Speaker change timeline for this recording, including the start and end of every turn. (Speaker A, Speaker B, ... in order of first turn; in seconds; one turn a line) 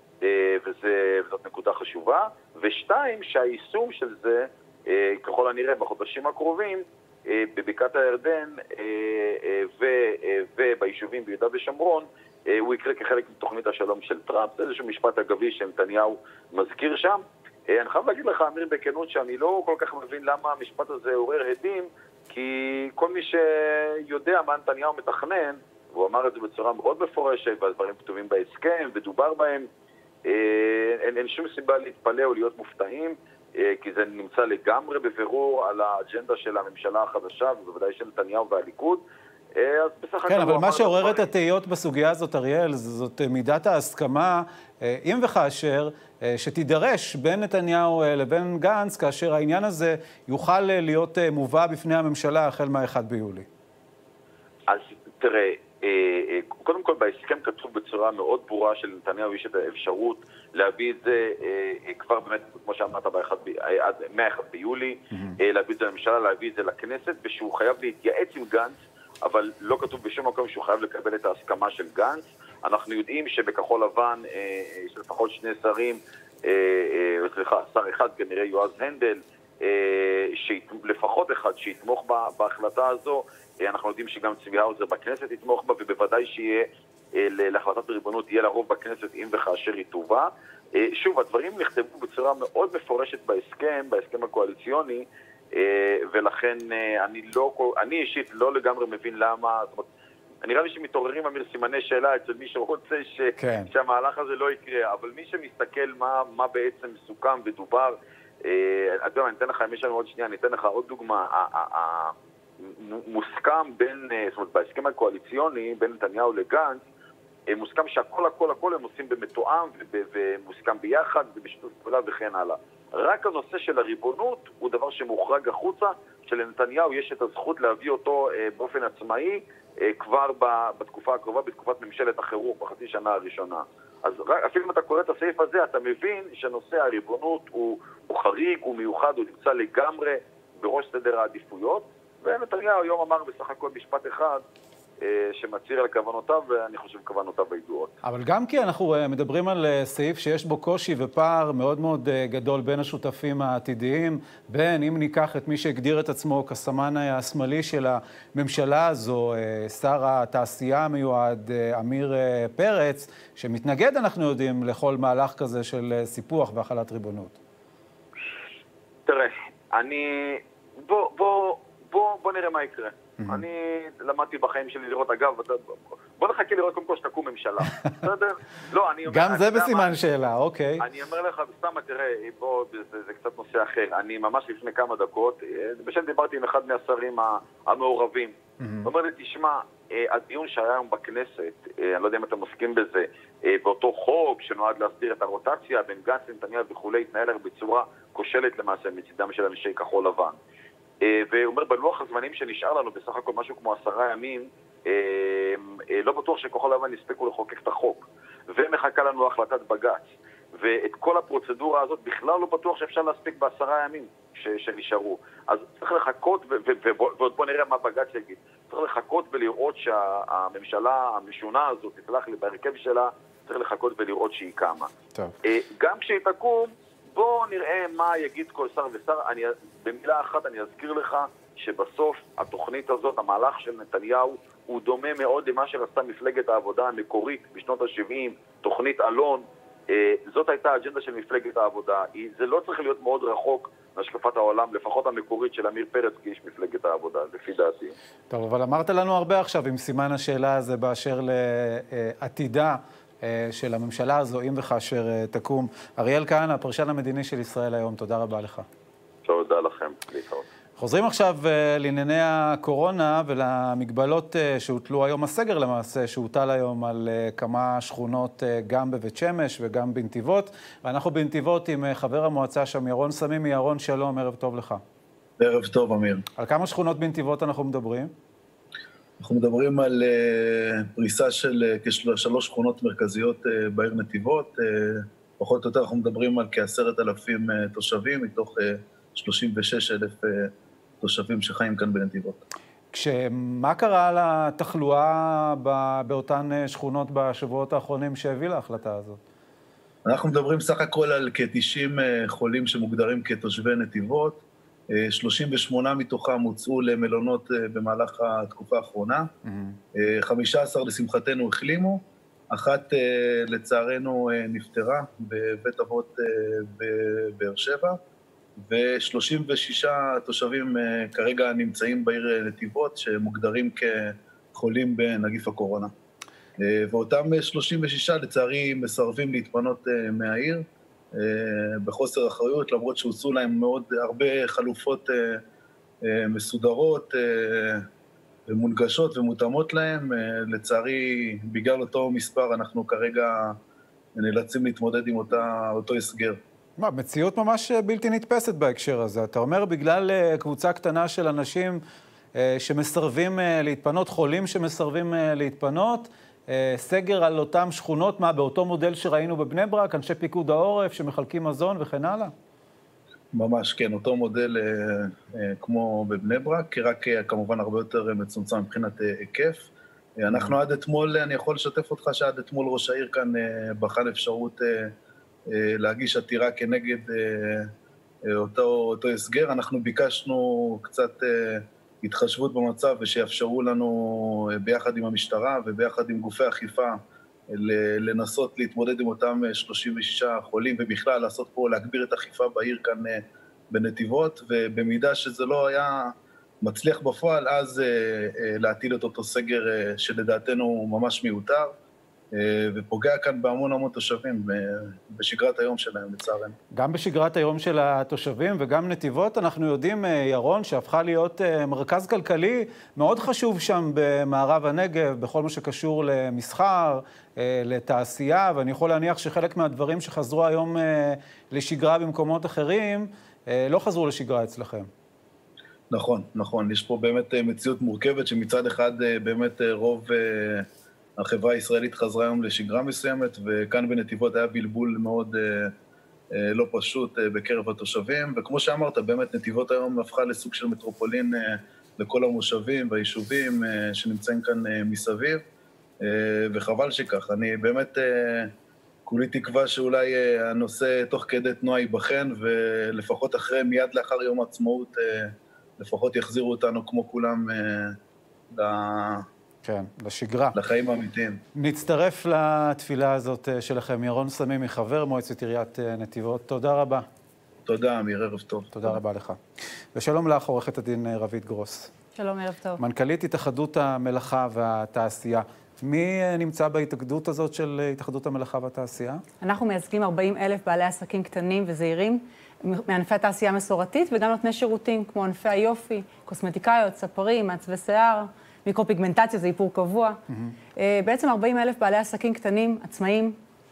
Speaker A: 0.2-29.7
Speaker A: 30.2-39.0
Speaker A: 39.5-41.2
Speaker B: 40.3-53.5
Speaker A: 54.7-99.8
Speaker B: 65.1-65.4
Speaker A: 100.4-112.1
Speaker B: 103.4-103.7
Speaker A: 112.7-116.8
Speaker A: 117.5-144.4
Speaker A: 145.0-147.9
Speaker B: 148.0-167.3
Speaker A: 169.1-179.9
Speaker B: 173.2-173.4
Speaker B: 179.1-180.8
Speaker A: 180.8-200.4
Speaker B: 188.6-188.9
Speaker A: 201.0-210.0
Speaker A: 210.6-224.9
Speaker A: 225.4-247.9
Speaker B: 248.3-258.6
Speaker A: 259.2-260.4
Speaker B: 260.8-274.8
Speaker C: 275.4-276.2
Speaker B: 276.4-278.1
Speaker C: 279.2-292.4
Speaker B: 292.9-299.2
Speaker C: 300.1-304.4
Speaker C: 304.9-309.3
Speaker B: 309.4-309.8
Speaker C: 310.0-318.0
Speaker C: 318.6-325.9
Speaker C: 326.6-335.4
Speaker C: 336.0-337.9
Speaker C: 338.5-343.6
Speaker C: 344.1-346.4
Speaker B: 346.8-351.8
Speaker B: 352.4-362.3
Speaker C: 363.3-369.7
Speaker C: 370.2-374.9
Speaker C: 375.5-377.7
Speaker C: 378.3-401.7
Speaker C: 402.3-406.6
Speaker B: 406.8-424.9
Speaker C: 425.9-435.7
Speaker C: 436.3-445.4
Speaker C: 446.0-448.5
Speaker C: 449.1-458.0
Speaker C: 458.5-459.2
Speaker B: 459.6-460.6
Speaker C: 460.5-461.4
Speaker B: 461.6-467.1
Speaker C: 467.6-468.7
Speaker B: 468.7-469.4
Speaker B: 469.9-471.9
Speaker D: 472.2-472.8
Speaker B: 472.8-479.2
Speaker D: 479.4-490.2
Speaker D: 490.8-493.4